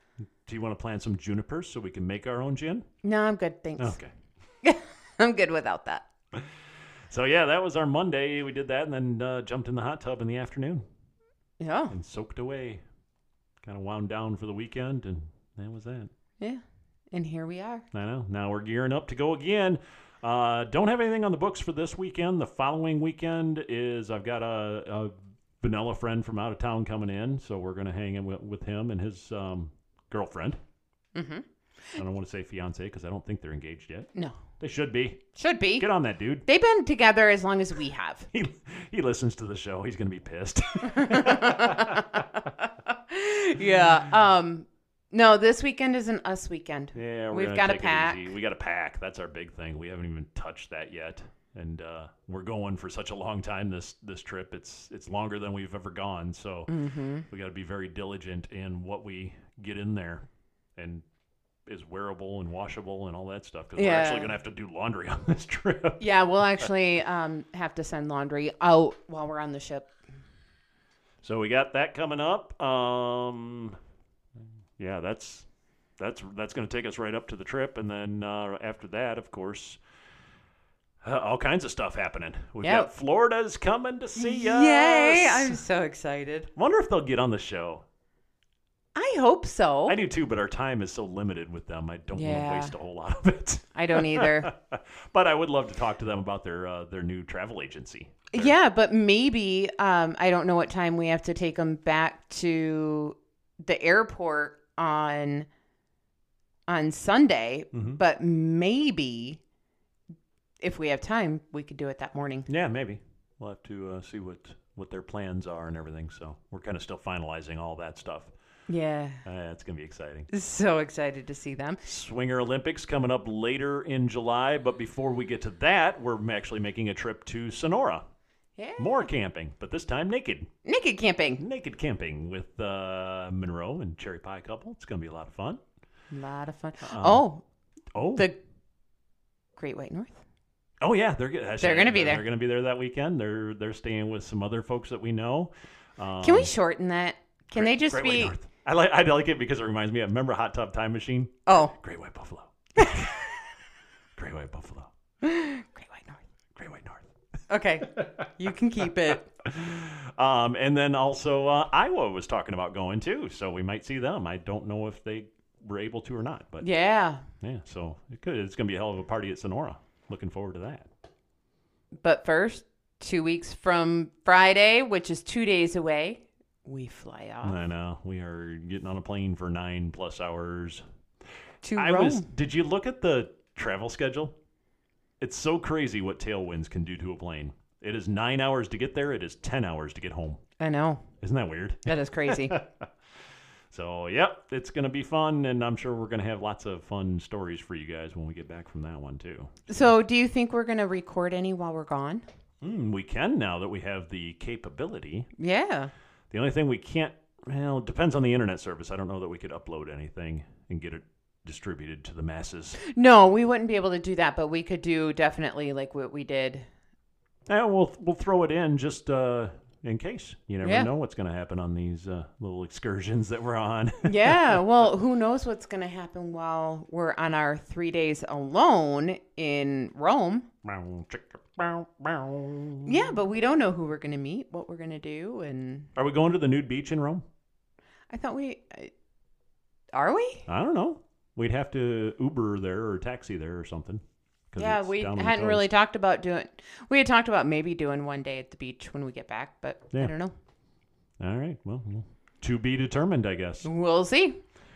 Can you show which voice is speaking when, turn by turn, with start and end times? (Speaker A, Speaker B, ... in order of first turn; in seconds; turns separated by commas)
Speaker A: 0.5-2.9, Speaker B: 3.0-4.0, Speaker A: 3.8-4.1, Speaker B: 4.6-6.0, Speaker A: 7.1-10.8, Speaker B: 11.6-11.9, Speaker A: 11.9-12.8, Speaker A: 13.6-16.1, Speaker B: 16.4-17.8, Speaker A: 17.9-30.6, Speaker B: 31.1-31.4, Speaker A: 32.0-35.3, Speaker B: 35.4-35.9, Speaker A: 35.8-36.4, Speaker B: 36.4-38.3, Speaker A: 38.3-42.2, Speaker B: 40.9-42.2, Speaker B: 42.9-48.3, Speaker A: 46.9-56.7, Speaker B: 56.7-57.2, Speaker A: 57.3-60.2, Speaker A: 60.8-61.0, Speaker A: 61.6-66.0, Speaker B: 63.8-64.3, Speaker B: 66.0-69.9, Speaker A: 71.2-73.8, Speaker A: 74.8-75.5, Speaker A: 76.0-79.8, Speaker A: 81.0-85.6, Speaker B: 82.6-82.9, Speaker B: 84.2-86.5, Speaker A: 86.5-87.8, Speaker B: 88.9-90.0, Speaker A: 89.9-98.5, Speaker B: 92.1-92.7, Speaker B: 93.7-94.5, Speaker B: 98.3-105.5, Speaker B: 106.7-109.4, Speaker A: 107.7-108.0, Speaker B: 110.6-112.5, Speaker A: 112.5-118.3, Speaker B: 118.7-119.2, Speaker A: 119.2-120.3, Speaker B: 120.3-121.8, Speaker A: 121.8-128.0, Speaker B: 128.6-129.1, Speaker A: 128.8-130.5, Speaker B: 130.6-131.4, Speaker A: 131.4-135.6, Speaker B: 136.1-137.4, Speaker A: 136.8-137.2, Speaker A: 137.9-138.3, Speaker B: 139.6-140.2, Speaker A: 140.8-146.5, Speaker B: 141.6-142.2, Speaker B: 146.2-148.3, Speaker A: 147.5-153.2, Speaker B: 151.5-151.7, Speaker B: 152.8-153.2, Speaker A: 154.2-154.9, Speaker B: 155.2-156.2, Speaker A: 156.6-157.0, Speaker B: 157.5-159.3, Speaker A: 159.4-166.7, Speaker B: 166.6-167.2, Speaker A: 167.4-170.8, Speaker B: 172.0-177.6, Speaker A: 177.4-180.8, Speaker B: 181.6-182.3, Speaker A: 181.8-184.3, Speaker A: 185.2-190.4, Speaker B: 190.6-191.0, Speaker A: 191.2-192.9, Speaker B: 191.8-192.6, Speaker A: 193.7-199.8, Speaker B: 199.7-202.2, Speaker A: 202.6-205.3, Speaker B: 205.4-205.9, Speaker A: 206.3-212.8, Speaker B: 212.8-216.7, Speaker A: 217.5-224.6, Speaker B: 220.6-220.9, Speaker B: 224.0-230.5, Speaker A: 230.6-232.9, Speaker B: 232.8-235.9, Speaker A: 235.9-237.2, Speaker B: 238.1-238.9, Speaker B: 239.9-240.5, Speaker A: 240.5-245.7, Speaker B: 244.6-250.3, Speaker A: 251.2-253.7, Speaker B: 253.6-254.4